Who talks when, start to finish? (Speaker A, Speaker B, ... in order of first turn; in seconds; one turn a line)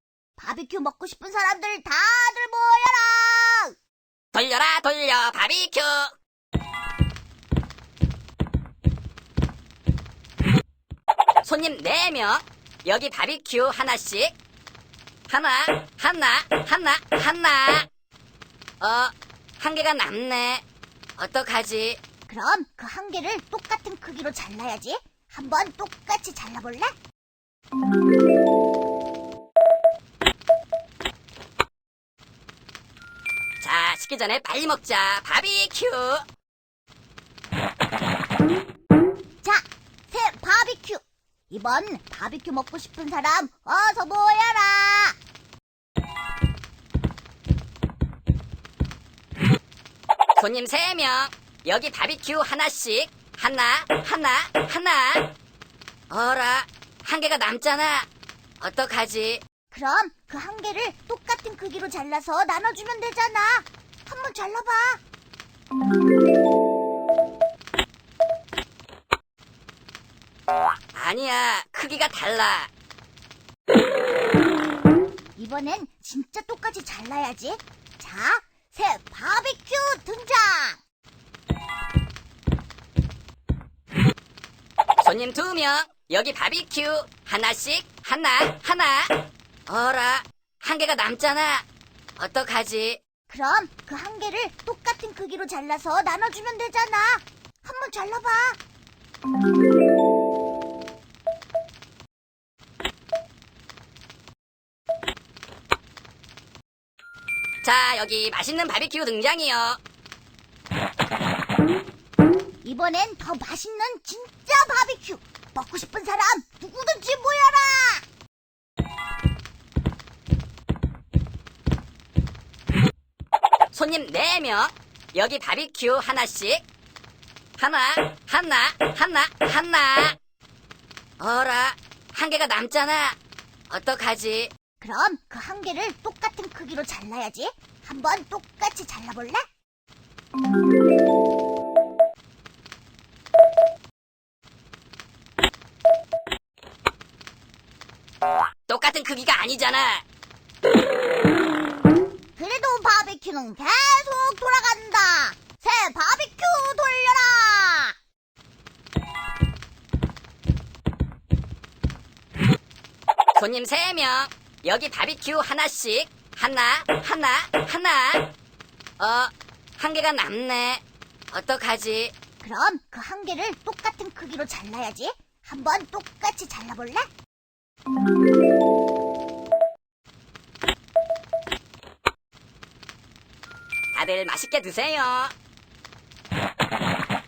Speaker A: 0.4-3.7
Speaker B: 4.3-6.1
Speaker B: 11.4-14.3
Speaker B: 15.3-17.9
Speaker B: 18.8-20.6
Speaker B: 21.2-22.0
Speaker A: 22.3-26.9
Speaker B: 33.6-36.2
Speaker A: 39.4-45.1
Speaker B: 50.4-55.3
Speaker B: 56.1-58.1
Speaker B: 58.6-59.4
Speaker A: 59.7-65.0
Speaker B: 70.9-72.7
Speaker A: 75.4-80.8
Speaker B: 85.0-89.1
Speaker B: 89.7-91.6
Speaker B: 92.2-93.0
Speaker A: 93.3-98.6
Speaker B: 107.6-109.8
Speaker A: 112.6-118.0
Speaker B: 123.7-126.6
Speaker B: 127.6-130.2
Speaker B: 131.2-133.2
Speaker B: 133.7-134.5
Speaker A: 134.8-139.4
Speaker B: 148.7-150.0
Speaker A: 152.4-157.9
Speaker B: 163.3-168.3
Speaker B: 169.0-172.1
Speaker A: 172.4-177.1
Speaker B: 183.9-185.3